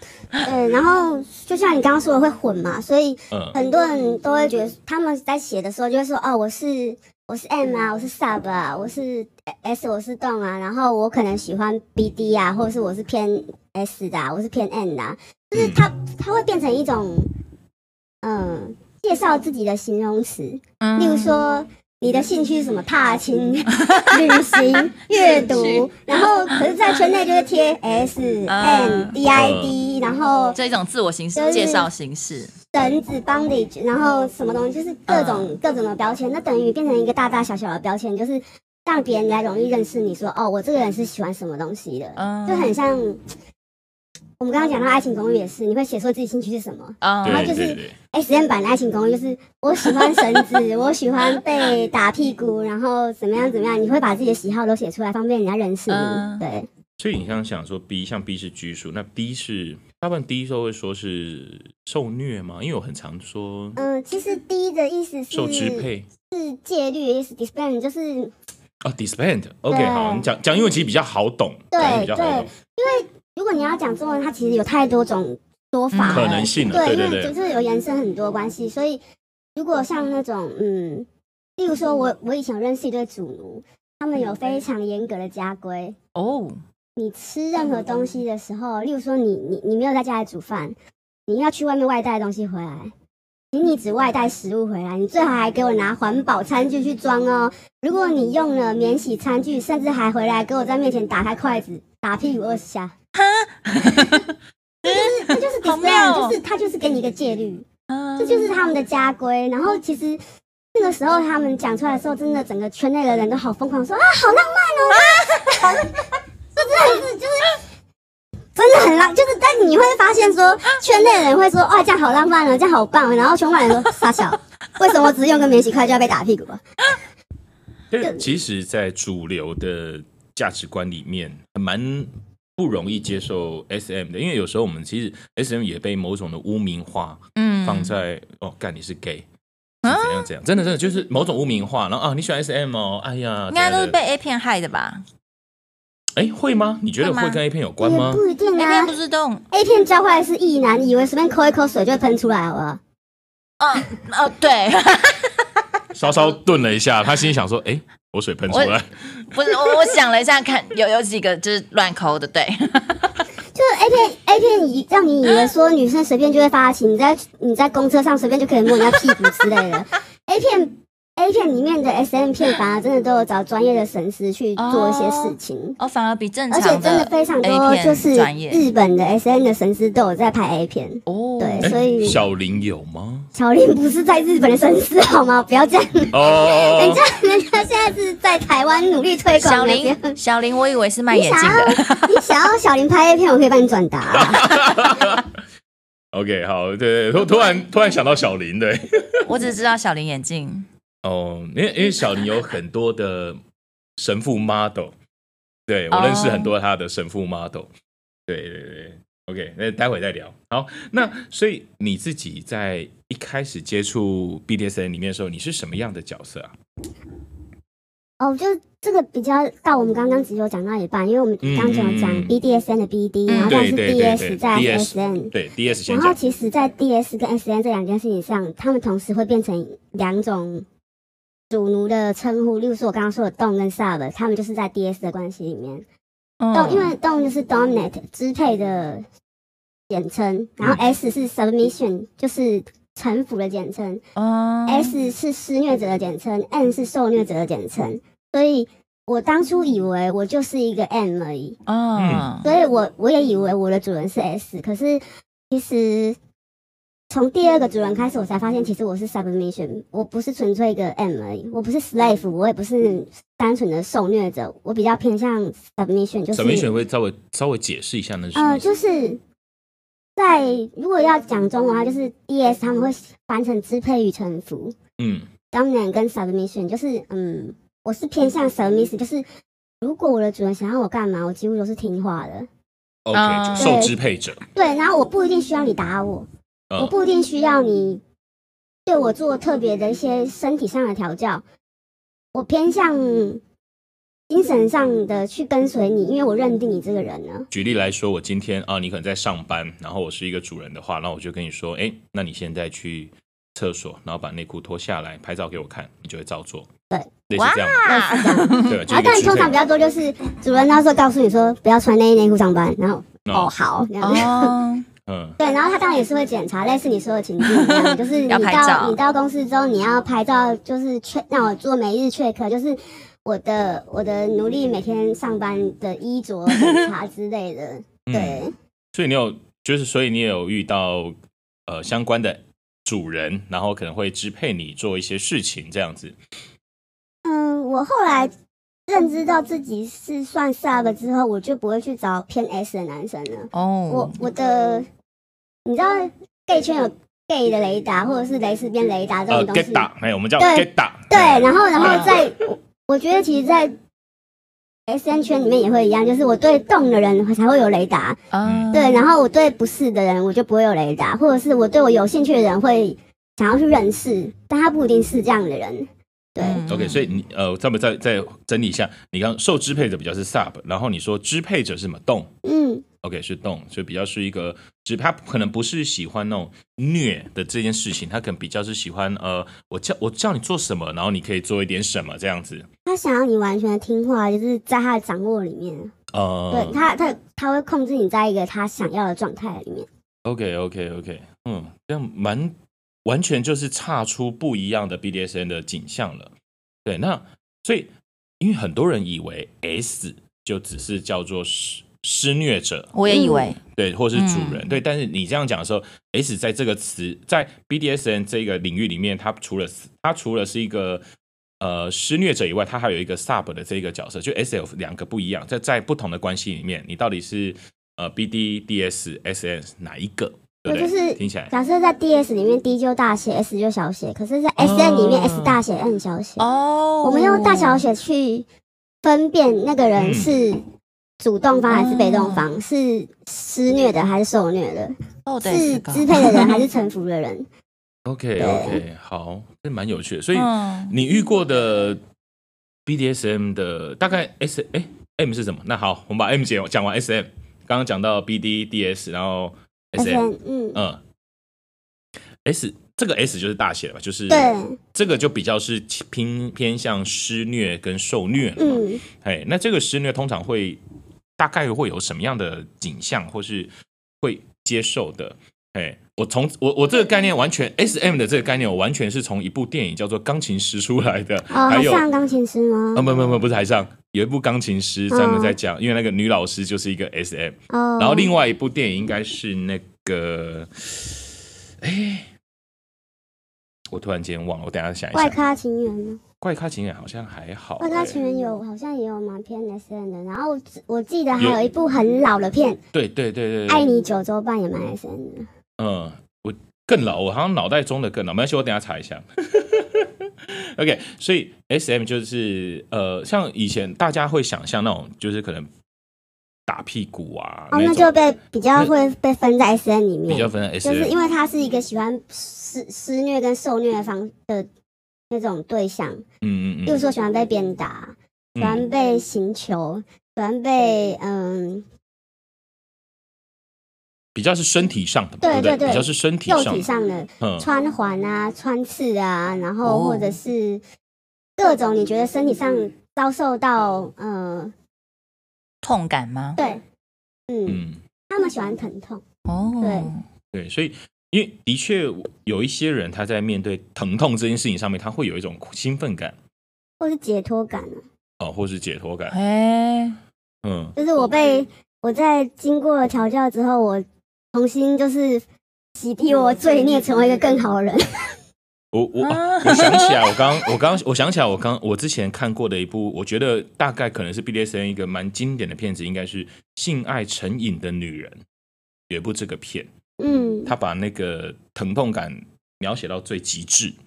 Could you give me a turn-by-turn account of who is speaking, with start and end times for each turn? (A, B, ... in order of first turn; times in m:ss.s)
0:00.4-0:17.3 A
0:03.3-0:03.6 B
0:15.5-0:15.8 B
0:18.2-0:30.6 A
0:20.8-0:21.4 C
0:23.8-0:25.9 C
0:28.5-0:29.2 C
0:29.3-0:29.8 B
0:30.5-0:32.5 C
0:31.3-0:31.9 A
0:32.7-0:43.2 A
0:35.1-0:35.6 C
0:42.2-0:42.8 C
0:44.4-0:56.7 A
0:47.0-0:47.6 C
0:47.2-0:47.9 B
0:55.9-0:56.4 C
0:57.0-1:03.8 B
1:03.8-1:08.3 A
1:05.3-1:06.1 B
1:08.8-1:12.5 B
1:09.7-1:10.2 A
1:11.7-1:19.0 A
1:15.9-1:16.5 C
1:16.0-1:17.3 B
1:19.6-1:21.1 A
1:21.6-1:26.0 A
1:26.1-1:26.6 C
1:27.0-1:30.8 A
1:31.3-1:32.9 A
1:33.5-1:42.9 A
1:43.1-1:46.4 C
1:44.8-1:47.6 A
1:47.9-1:48.6 C
1:48.2-1:50.2 A
1:50.7-1:57.6 A
1:55.0-1:55.5 C
1:58.6-2:06.6 A
2:07.9-2:19.2 B
2:17.4-2:17.9 C
2:19.8-2:24.0 B
2:19.8-2:20.3 C
2:23.5-2:25.0 C
2:26.2-2:28.2 B
2:27.0-2:27.4 C
2:27.8-2:28.9 A
2:28.6-2:29.4 C
2:29.5-2:32.8 A
2:33.6-2:35.4 C
2:35.9-2:38.9 B
2:38.5-2:38.8 C
2:39.3-2:43.2 C
2:43.5-2:55.8 A
2:54.6-2:58.7 C
2:56.5-3:02.2 A
3:01.1-3:01.7 C
3:01.6-3:03.3 B
3:03.3-3:10.2 A
3:06.1-3:07.0 B
3:09.3-3:12.2 C
3:11.1-3:14.6 A
3:14.1-3:15.4 B
3:16.1-3:19.3 B
3:19.2-3:20.7 C
3:21.0-3:23.4 B
3:24.0-3:24.9 B
3:25.7-3:27.7 B
3:25.9-3:26.5 C
3:28.3-3:36.5 B
3:38.2-3:45.3 A
3:41.4-3:42.4 B
3:43.3-3:43.6 C
3:43.4-3:46.2 B
3:45.9-3:50.6 A
3:51.5-3:55.8 A
3:56.4-3:56.9 C
3:56.5-3:59.0 A
3:59.9-4:04.0 A
4:04.2-4:04.9 C
4:04.7-4:11.6 A
4:11.7-4:12.5 C
4:12.0-4:12.3 B
4:12.4-4:16.2 A
4:17.1-4:26.7 A
4:26.3-4:28.6 B
4:28.3-4:29.2 A
4:30.2-4:34.8 A
4:35.0-4:35.3 B
4:35.5-4:39.2 A
4:39.8-4:42.5 A
4:43.0-4:44.4 B
4:43.1-4:43.8 C
4:43.6-4:43.9 A
4:44.5-4:48.0 A
4:48.8-4:51.4 A
4:52.3-4:53.4 A
4:54.3-4:57.5 A
4:57.5-5:06.7 B
5:07.3-5:07.9 B
5:07.3-5:08.8 C
5:07.8-5:14.6 A
5:08.6-5:09.6 B
5:13.2-5:13.5 B
5:14.0-5:14.9 C
5:15.0-5:15.4 B
5:15.4-5:28.5 A
5:17.4-5:19.0 C
5:26.6-5:26.8 C
5:28.1-5:31.1 B
5:31.7-5:36.2 B
5:37.2-5:38.3 A
5:38.9-5:44.9 A
5:43.5-5:44.2 C
5:45.6-5:49.9 A
5:49.3-5:52.2 B
5:50.4-5:53.8 A
5:51.8-5:52.1 C
5:54.9-5:58.2 A
5:58.3-5:59.1 C
5:58.4-5:58.7 B
5:58.7-6:06.6 A
6:06.4-6:07.1 C
6:06.7-6:12.3 B
6:12.4-6:12.8 A
6:13.0-6:22.7 B
6:22.8-6:25.9 A
6:26.1-6:26.8 B
6:26.5-6:29.9 A
6:30.2-6:36.3 B
6:36.8-6:42.9 B
6:42.9-6:43.6 C
6:43.1-6:43.5 A
6:43.7-6:51.0 B
6:44.1-6:44.6 C
6:51.6-7:01.5 B
7:00.6-7:06.4 A
7:04.6-7:05.6 B
7:06.4-7:07.8 C
7:07.0-7:08.4 A
7:09.0-7:10.6 A
7:10.0-7:10.3 B
7:11.2-7:17.5 A
7:11.7-7:12.4 C
7:15.2-7:16.6 C
7:18.0-7:22.0 B
7:18.4-7:18.8 A
7:20.3-7:20.9 C
7:22.8-7:31.0 B
7:30.0-7:30.8 A
7:32.4-7:40.8 B
7:34.3-7:34.8 A
7:38.6-7:39.0 A
7:41.4-7:52.1 B
7:51.5-7:53.1 A
7:52.9-8:02.3 B
7:55.1-7:55.6 A
7:57.7-7:58.3 A
8:03.9-8:05.4 B
8:05.1-8:06.2 A
8:06.4-8:08.2 B
8:07.8-8:12.8 A
8:12.9-8:13.8 B
8:13.7-8:15.5 A
8:15.8-8:25.7 B
8:26.7-8:28.1 B
8:27.7-8:34.7 A
8:30.3-8:31.1 B
8:35.3-8:36.2 A
8:36.4-8:37.1 B
8:36.8-8:41.8 A
8:38.5-8:38.8 B
8:44.3-8:46.8 B
8:45.4-8:50.8 A
8:47.4-8:47.6 B
8:49.8-8:50.4 C
8:51.6-8:54.7 A
8:55.8-8:56.6 C
8:56.6-8:56.8 A
8:57.5-8:59.2 A
8:57.7-8:58.0 B
8:59.4-9:00.2 C
8:59.8-9:00.1 A
9:00.5-9:06.3 B
9:07.0-9:08.0 A
9:08.4-9:09.4 B
9:09.3-9:10.2 C
9:10.6-9:10.9 B
9:11.0-9:15.4 A
9:16.0-9:18.3 A
9:18.9-9:28.4 B
9:19.2-9:20.4 C
9:29.1-9:29.9 B
9:30.2-9:30.7 A
9:30.6-9:34.0 B